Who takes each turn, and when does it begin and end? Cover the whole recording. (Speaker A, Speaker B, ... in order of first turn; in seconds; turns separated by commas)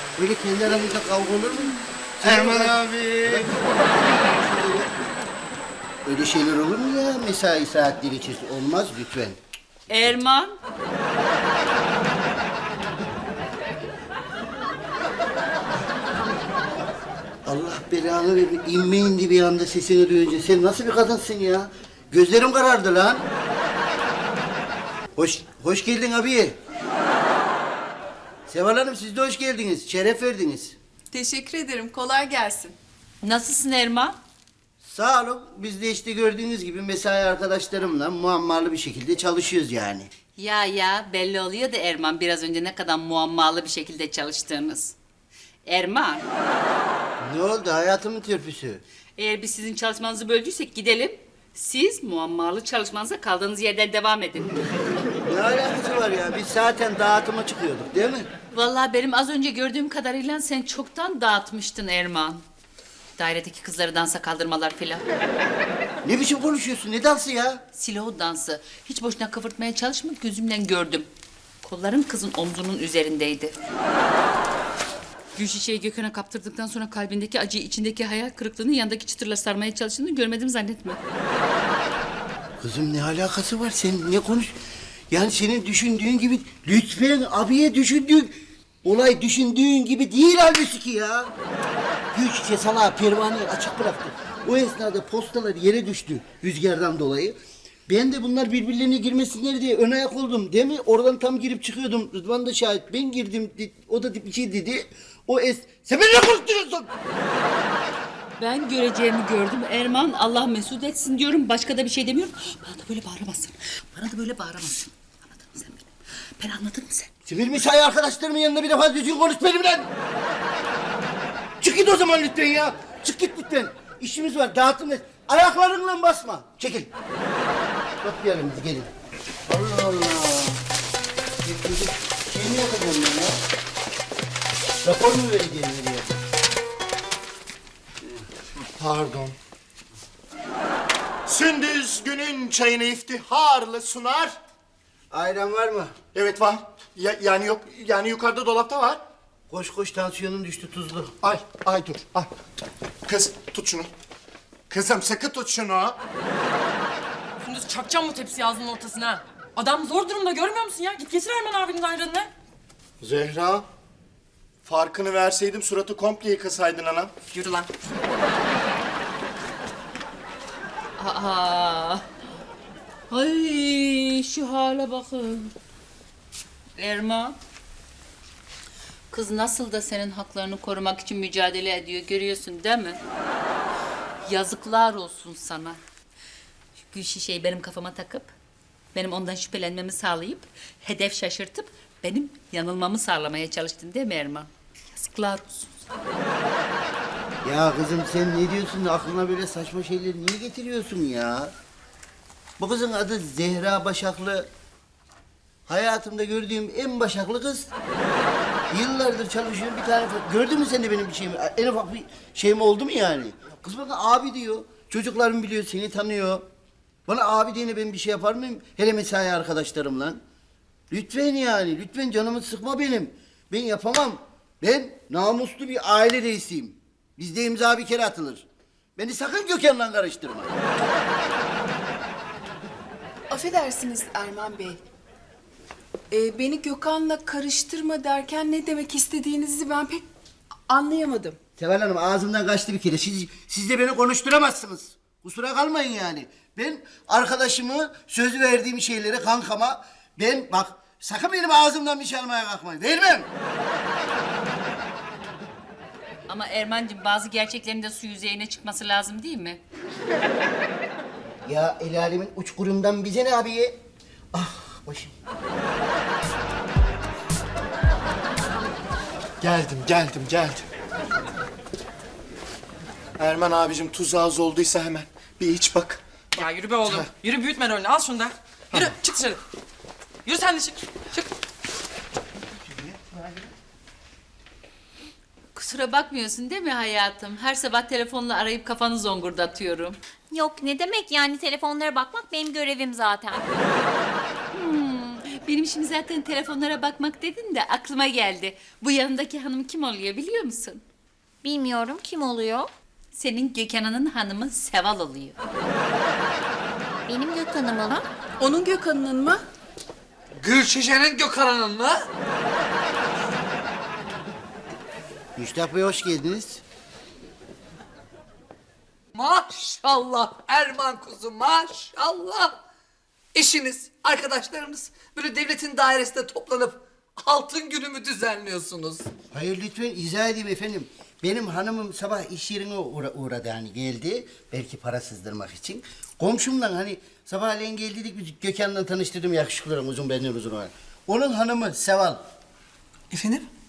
Speaker A: 0.2-5.1, Speaker B: 2.2-3.5, Speaker A: 6.0-9.4, Speaker C: 9.9-10.6, Speaker A: 17.4-23.3, Speaker A: 25.2-26.6, Speaker A: 28.5-30.8, Speaker D: 31.1-32.8, Speaker C: 33.2-34.2, Speaker A: 34.8-40.1, Speaker C: 40.4-45.0, Speaker C: 45.6-46.2, Speaker A: 47.2-48.8, Speaker C: 49.2-54.7, Speaker A: 55.2-58.3, Speaker C: 58.5-62.4, Speaker C: 63.2-65.0, Speaker A: 66.0-67.6, Speaker C: 67.8-71.1, Speaker C: 71.6-73.5, Speaker C: 75.3-81.0, Speaker A: 82.6-84.5, Speaker A: 85.1-91.3, Speaker A: 92.1-106.9, Speaker C: 108.4-117.1, Speaker A: 117.2-119.9, Speaker A: 121.6-126.9, Speaker A: 128.0-128.9, Speaker A: 129.5-130.6, Speaker A: 131.4-133.4, Speaker A: 134.8-136.2, Speaker B: 138.8-139.3, Speaker B: 141.2-144.4, Speaker A: 145.1-145.9, Speaker B: 146.1-149.0, Speaker A: 149.5-151.2, Speaker B: 151.2-152.3, Speaker B: 153.1-153.9, Speaker B: 154.7-156.0, Speaker E: 157.4-162.3, Speaker B: 163.0-163.7, Speaker B: 164.6-167.1, Speaker E: 167.3-167.7, Speaker C: 171.0-172.0, Speaker C: 173.1-175.5, Speaker C: 176.8-177.4, Speaker C: 179.1-183.0, Speaker C: 184.2-185.8, Speaker C: 186.8-188.3, Speaker C: 188.9-195.7, Speaker A: 197.4-201.5, Speaker A: 202.6-204.5, Speaker A: 205.7-207.7, Speaker A: 208.7-216.5, Speaker A: 217.1-220.2, Speaker A: 220.9-228.4, Speaker A: 229.0-230.5, Speaker D: 233.3-234.8, Speaker D: 236.1-240.1, Speaker D: 240.7-241.4, Speaker A: 241.6-253.3, Speaker C: 256.3-259.6, Speaker A: 261.4-263.8, Speaker A: 264.3-265.1, Speaker B: 269.4-270.6, Speaker B: 273.2-276.0, Speaker E: 276.4-279.4, Speaker E: 280.2-281.3, Speaker C: 285.5-290.0, Speaker F: 290.3-293.5, Speaker C: 294.5-300.8, Speaker F: 301.4-302.7, Speaker C: 303.1-305.4, Speaker F: 307.1-308.1, Speaker D: 308.4-309.4, Speaker G: 310.4-312.1, Speaker A: 315.4-316.6, Speaker G: 319.1-322.6, Speaker G: 323.3-329.1, Speaker A: 329.3-342.2, Speaker G: 343.1-343.4